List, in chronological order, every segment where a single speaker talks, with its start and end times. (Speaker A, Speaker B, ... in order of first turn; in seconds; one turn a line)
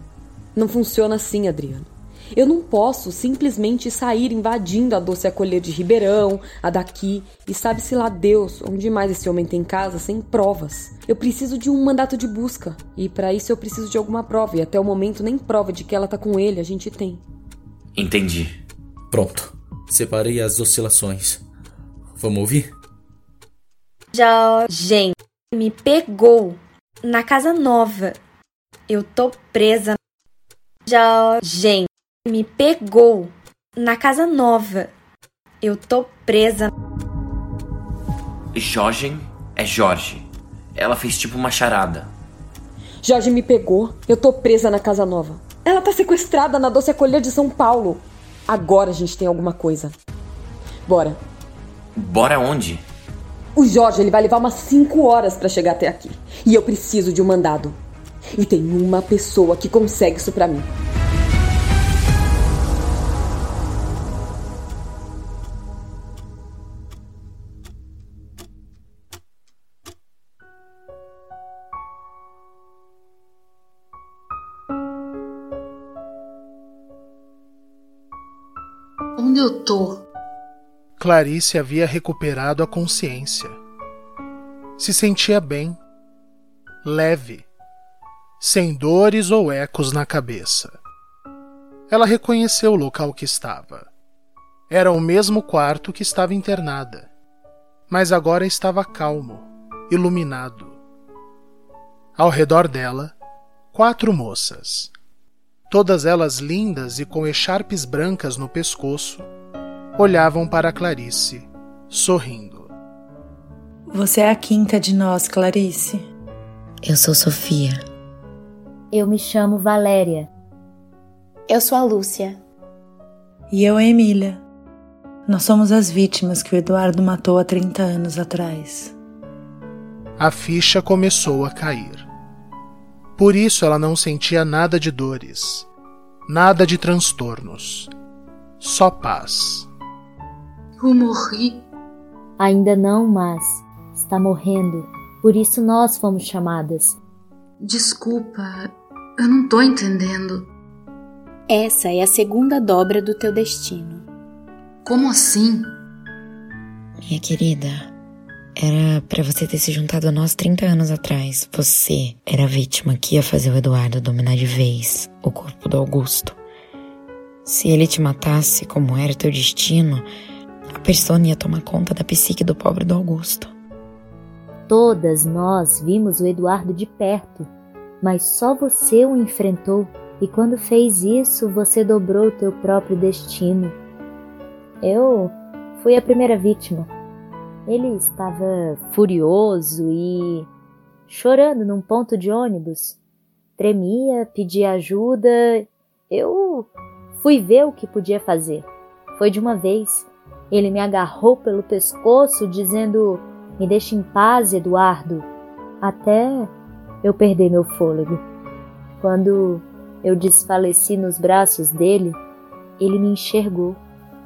Speaker A: 0.6-17.2
Speaker B: 17.9-18.6
Speaker C: 19.1-21.4
Speaker C: 22.2-22.7
Speaker D: 24.1-28.2
Speaker D: 28.9-29.9
Speaker D: 30.9-34.9
Speaker D: 35.6-36.7
Speaker B: 38.5-42.1
Speaker A: 43.0-49.9
Speaker A: 50.9-51.2
Speaker B: 52.0-52.8
Speaker A: 53.6-57.8
Speaker A: 58.4-60.7
Speaker E: 79.2-80.0
Speaker F: 81.0-83.6
Speaker F: 84.8-85.8
Speaker F: 86.8-87.5
Speaker F: 88.4-90.8
Speaker F: 91.9-93.9
Speaker F: 94.7-97.1
Speaker F: 97.9-100.8
Speaker F: 102.2-103.1
Speaker F: 103.7-104.9
Speaker F: 105.7-109.3
Speaker F: 110.0-112.7
Speaker G: 113.9-116.1
Speaker H: 116.8-117.8
Speaker I: 118.9-120.3
Speaker J: 121.5-122.4
Speaker G: 123.5-124.4
Speaker G: 125.3-128.9
Speaker F: 130.2-132.1
Speaker F: 133.2-135.7
Speaker F: 136.3-137.9
Speaker F: 138.6-139.7
Speaker E: 140.8-141.6
Speaker I: 142.4-147.0
Speaker E: 147.6-150.5
Speaker J: 151.5-154.0
Speaker E: 154.8-155.8
Speaker H: 157.1-157.9
Speaker H: 158.6-166.4
Speaker H: 167.5-170.1
Speaker H: 170.8-173.5
Speaker I: 174.7-177.5
Speaker I: 178.0-183.8
Speaker I: 184.8-186.9
Speaker I: 187.7-190.5
Speaker I: 191.1-193.0
Speaker I: 193.6-205.3
Speaker I: 205.8-208.2
Speaker I: 209.0-212.2
Speaker I: 212.8-213.8